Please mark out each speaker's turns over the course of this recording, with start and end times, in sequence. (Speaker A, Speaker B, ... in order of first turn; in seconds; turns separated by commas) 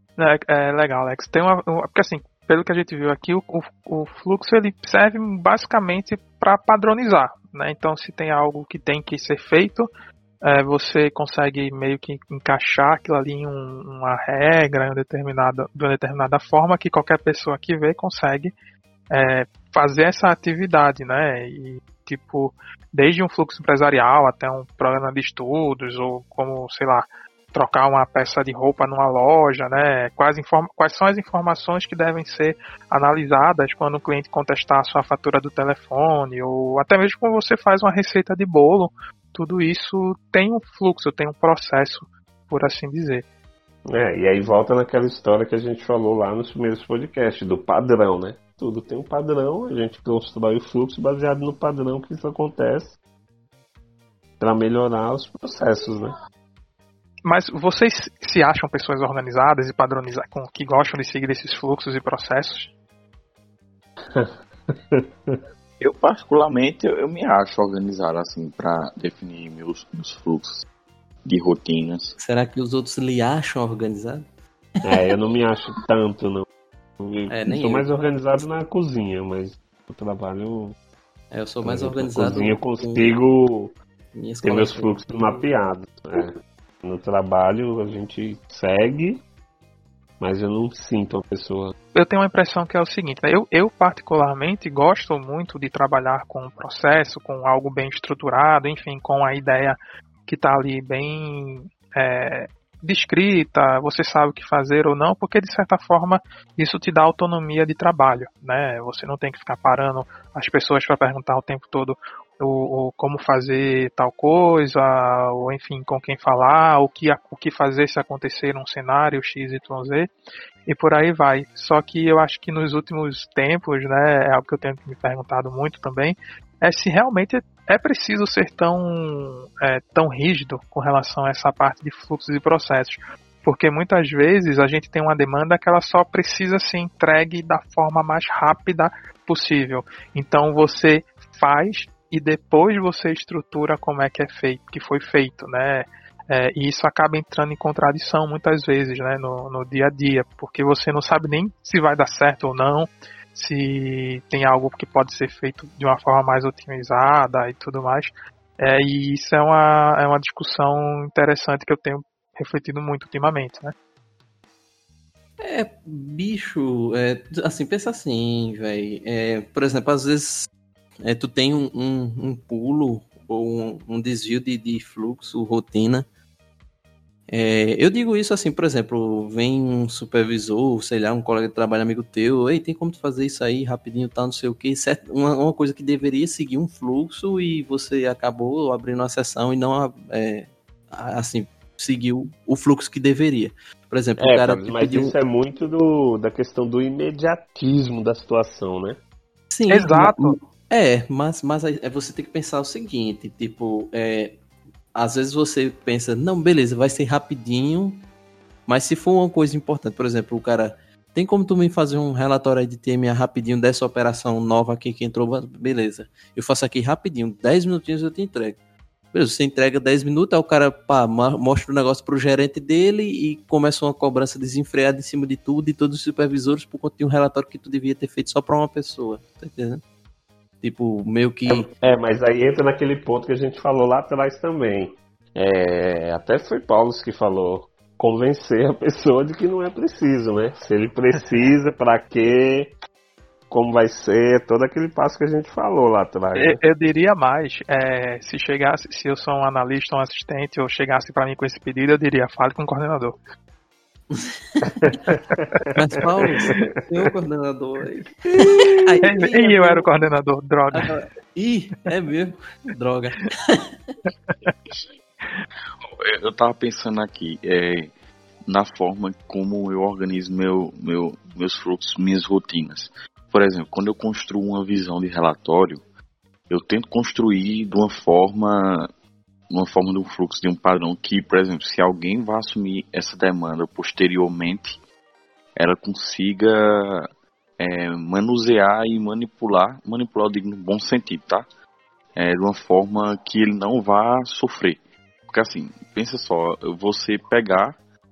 Speaker A: 0.2-9.9, Speaker A: 10.4-18.5, Speaker A: 19.1-43.2, Speaker B: 43.9-53.0, Speaker B: 54.4-56.1, Speaker A: 57.2-62.7, Speaker B: 64.1-65.4, Speaker C: 65.8-70.6, Speaker C: 71.2-72.2, Speaker D: 72.2-74.2, Speaker B: 74.8-76.5, Speaker B: 77.0-80.7, Speaker D: 77.3-77.9, Speaker D: 81.3-83.2, Speaker B: 81.6-83.7, Speaker D: 84.1-85.5, Speaker B: 84.4-89.2, Speaker B: 90.2-91.7, Speaker A: 91.9-120.1, Speaker A: 120.7-163.7, Speaker D: 165.4-170.5, Speaker D: 171.0-176.1, Speaker D: 177.3-195.1, Speaker B: 194.2-199.0, Speaker D: 199.5-204.4, Speaker A: 199.7-200.3, Speaker D: 204.9-208.0, Speaker D: 208.7-218.6, Speaker D: 219.1-229.8, Speaker D: 230.6-231.7, Speaker B: 231.5-242.7, Speaker B: 243.5-246.6, Speaker A: 246.3-253.2, Speaker D: 254.1-254.7, Speaker B: 254.8-255.4, Speaker A: 255.1-255.6, Speaker D: 255.8-259.9, Speaker B: 258.4-259.0, Speaker A: 259.0-260.9, Speaker D: 260.7-263.9, Speaker A: 264.1-264.5, Speaker C: 265.8-267.9, Speaker C: 268.5-275.8, Speaker C: 276.5-278.9, Speaker C: 279.5-284.8, Speaker C: 285.6-287.1, Speaker C: 287.6-291.4, Speaker C: 292.1-297.8